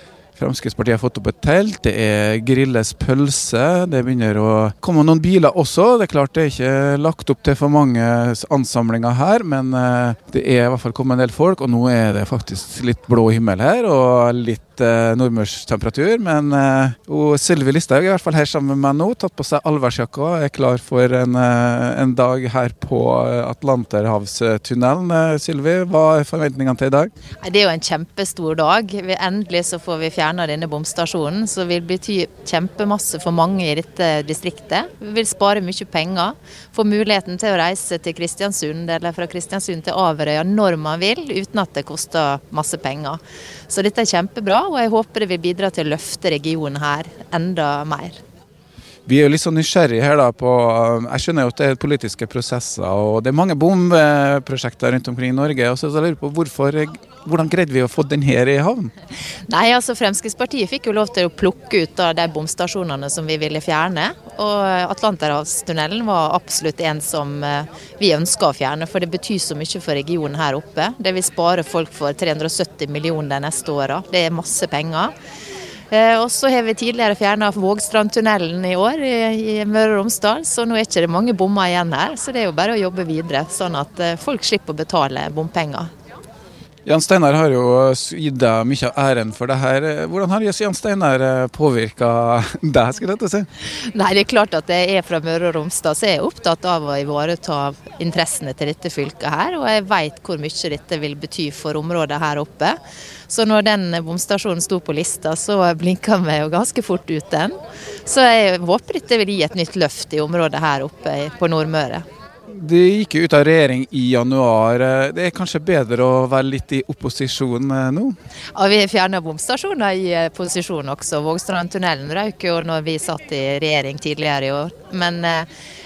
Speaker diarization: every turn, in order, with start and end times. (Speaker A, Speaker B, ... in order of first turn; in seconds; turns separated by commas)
Speaker A: 0.4-27.1, Speaker B: 27.4-48.2, Speaker A: 49.0-58.9, Speaker B: 59.5-75.1, Speaker B: 75.9-85.9, Speaker A: 86.8-93.5, Speaker B: 93.8-112.0, Speaker A: 112.5-118.1, Speaker B: 118.5-125.5